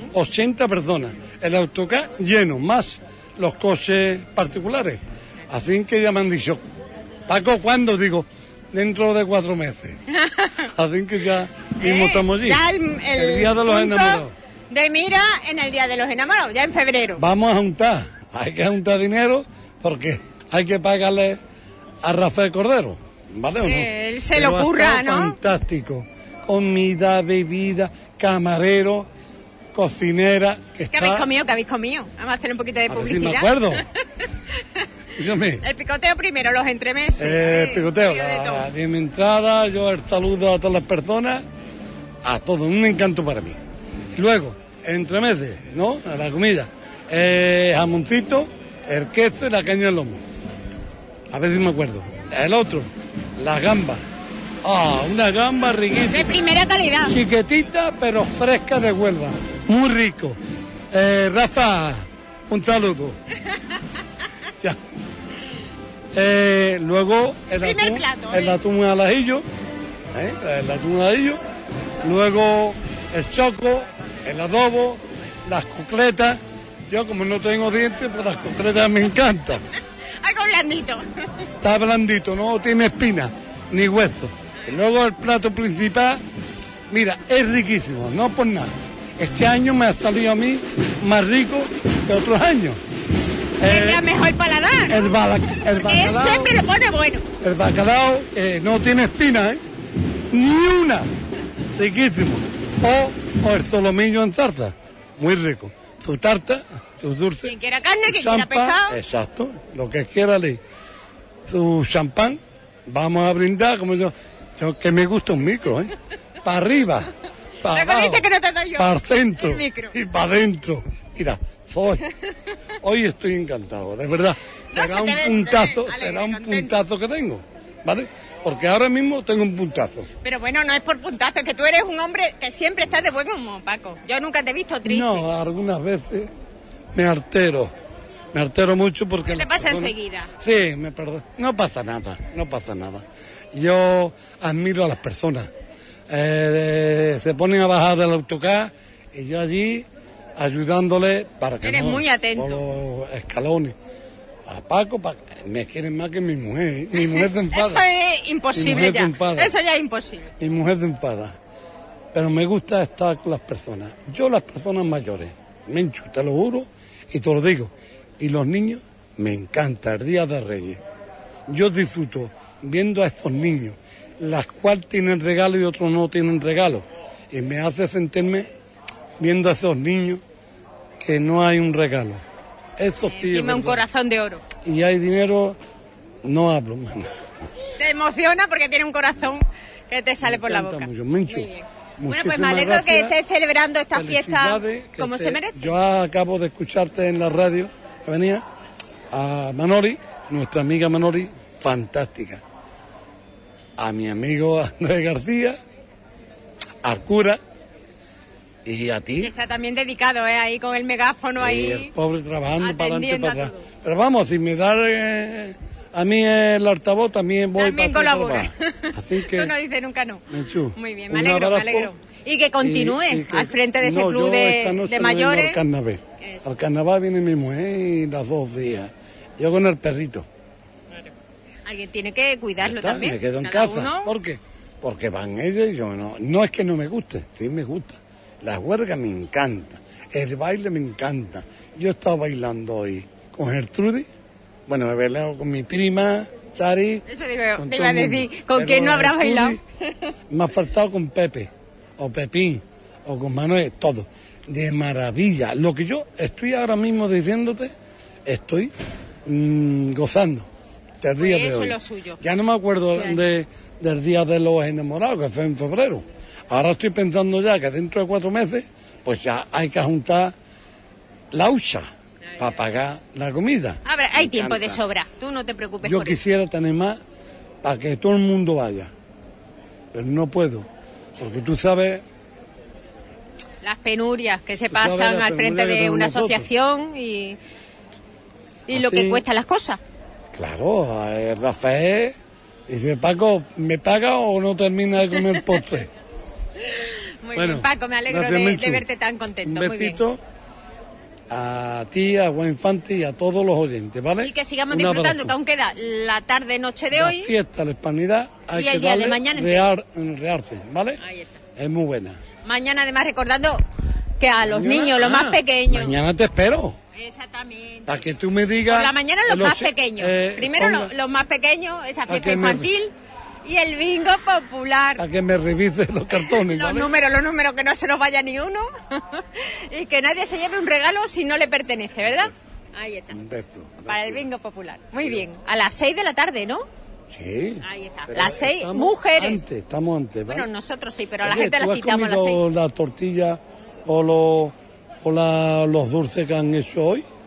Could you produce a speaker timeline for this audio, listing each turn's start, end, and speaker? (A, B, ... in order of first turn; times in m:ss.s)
0:00.1-0:06.6 A
0:07.3-0:10.0 A
0:10.1-0:10.7 B
0:10.7-0:12.6 A
0:11.8-0:17.2 B
0:13.2-0:14.3 A
0:17.2-0:21.4 A
0:22.0-0:29.1 A
0:23.6-0:25.4 B
0:29.8-0:31.2 A
0:30.9-0:33.8 B
0:32.9-0:33.8 A
0:35.2-0:35.6 A
0:35.6-0:38.7 B
0:37.2-0:41.4 A
0:42.2-0:43.6 A
0:44.2-0:50.2 A
0:51.3-0:52.9 A
0:53.4-0:54.0 A
0:54.6-0:56.3 A
0:56.1-0:57.1 B
0:57.1-1:00.4 A
1:00.9-1:03.2 A
1:06.2-1:09.4 A
1:07.6-1:08.6 B
1:10.2-1:11.4 A
1:12.0-1:19.6 A
1:20.2-1:21.1 B
1:21.6-1:26.2 A
1:26.9-1:32.8 A
1:33.6-1:34.0 A
1:33.6-1:37.2 B
1:34.9-1:36.5 A
1:37.4-1:39.6 A
1:40.3-1:41.1 A
1:41.8-1:47.5 A
1:47.4-1:49.0 B
1:48.1-1:50.6 A
1:51.5-1:52.4 A
1:52.9-1:57.1 A
1:57.6-2:02.0 A
1:57.7-1:59.9 B
2:02.8-2:10.1 A
2:04.7-2:06.8 B
2:10.2-2:15.3 B
2:14.8-2:16.3 A
2:16.9-2:17.7 A
2:18.3-2:25.5 A
2:19.3-2:20.3 B
2:26.1-2:29.9 A
2:30.4-2:33.8 A
2:31.6-2:32.6 B
2:34.5-2:37.8 A
2:37.0-2:40.3 B
2:38.6-2:39.5 A
2:40.4-2:41.3 A
2:42.1-2:50.8 A
2:51.5-2:58.5 A
2:59.2-3:00.2 A
3:01.0-3:02.2 A
3:02.8-3:03.8 A
3:03.1-3:04.4 B
3:04.6-3:05.6 A
3:06.2-3:07.1 A
3:07.8-3:15.8 B
3:10.2-3:13.2 A
3:13.9-3:18.4 A
3:19.1-3:22.4 A
3:23.8-3:25.6 A
3:26.8-3:27.4 A
3:28.7-3:29.3 A
3:29.2-3:31.9 B
3:31.4-3:39.5 A
3:32.6-3:33.6 B
3:37.6-3:40.2 B
3:40.3-3:41.9 A
3:40.8-3:45.6 B
3:42.6-3:50.2 A
3:51.7-3:54.1 B
3:52.6-4:04.1 A
4:04.7-4:07.0 A
4:07.1-4:09.6 B
4:07.6-4:09.6 A
4:10.3-4:17.7 A
4:18.3-4:18.7 A
4:19.3-4:20.5 A
4:21.0-4:30.3 A
4:21.2-4:22.2 B
4:22.9-4:23.2 B
4:31.3-4:31.9 A
4:32.3-4:32.6 B
4:32.4-4:34.8 A
4:33.8-4:36.2 B
4:35.8-4:37.0 A
4:37.6-4:38.9 A
4:39.9-4:40.7 A
4:41.2-4:42.0 A
4:43.6-4:47.4 B
4:44.7-4:46.4 A
4:48.7-4:49.8 B
4:48.7-4:49.2 A
4:50.4-4:52.2 A
4:52.7-4:55.9 A
4:56.7-5:00.0 B
4:57.4-4:58.8 A
4:59.5-5:00.2 A
5:01.3-5:05.3 A
5:04.2-5:07.3 B
5:06.9-5:11.0 A
5:08.5-5:09.7 B
5:11.0-5:11.4 B
5:11.6-5:12.2 A
5:12.4-5:13.6 B
5:14.2-5:15.9 B
5:14.5-5:16.8 A
5:17.0-5:18.1 B
5:17.9-5:20.9 A
5:18.7-5:22.9 B
5:22.1-5:22.7 A
5:23.4-5:25.0 B
5:25.0-5:26.9 A
5:26.2-5:33.2 B
5:33.1-5:34.2 A
5:33.9-5:36.7 B
5:35.0-5:35.2 A
5:37.1-5:40.5 A
5:37.6-5:39.4 B
5:40.3-5:42.4 B
5:41.2-5:47.0 A